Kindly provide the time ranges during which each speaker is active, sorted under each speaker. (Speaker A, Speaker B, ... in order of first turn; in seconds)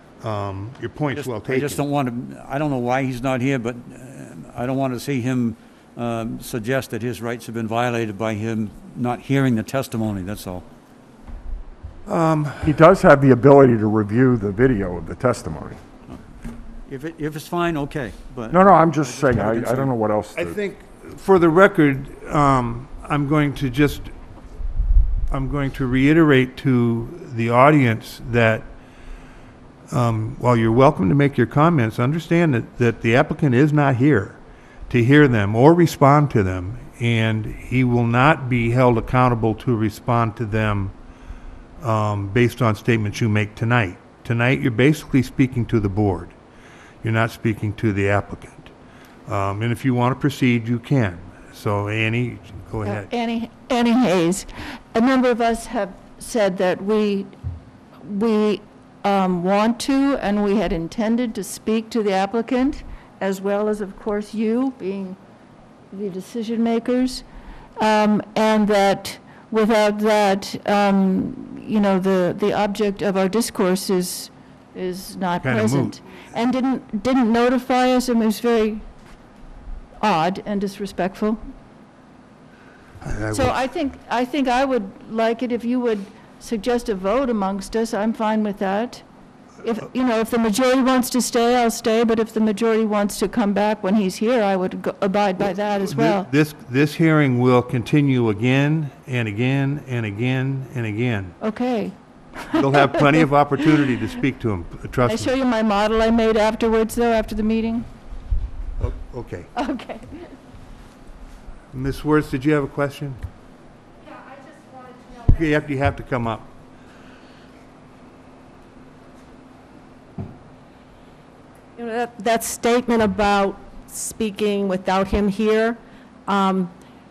Speaker A: 0.2-1.8, 12.1-12.7, 20.3-24.1, 25.3-28.7, 29.9-34.4, 34.9-40.9, 41.8-46.4, 47.0-48.7, 49.3-53.1, 75.4-75.9, 83.0-83.5, 95.8-101.3, 102.6-105.3, 108.8-109.5, 111.7-113.2, 115.3-116.5
Speaker B: 1.1-10.6, 16.9-19.9
Speaker C: 12.6-15.8, 18.5-20.6
Speaker D: 52.8-57.3, 58.0-65.2, 65.9-67.2, 67.8-78.8, 80.0-81.4, 83.3-89.0, 89.6-96.3, 101.4-104.0, 105.0-107.9, 109.5-110.3, 114.7-115.0
Speaker E: 121.8-126.7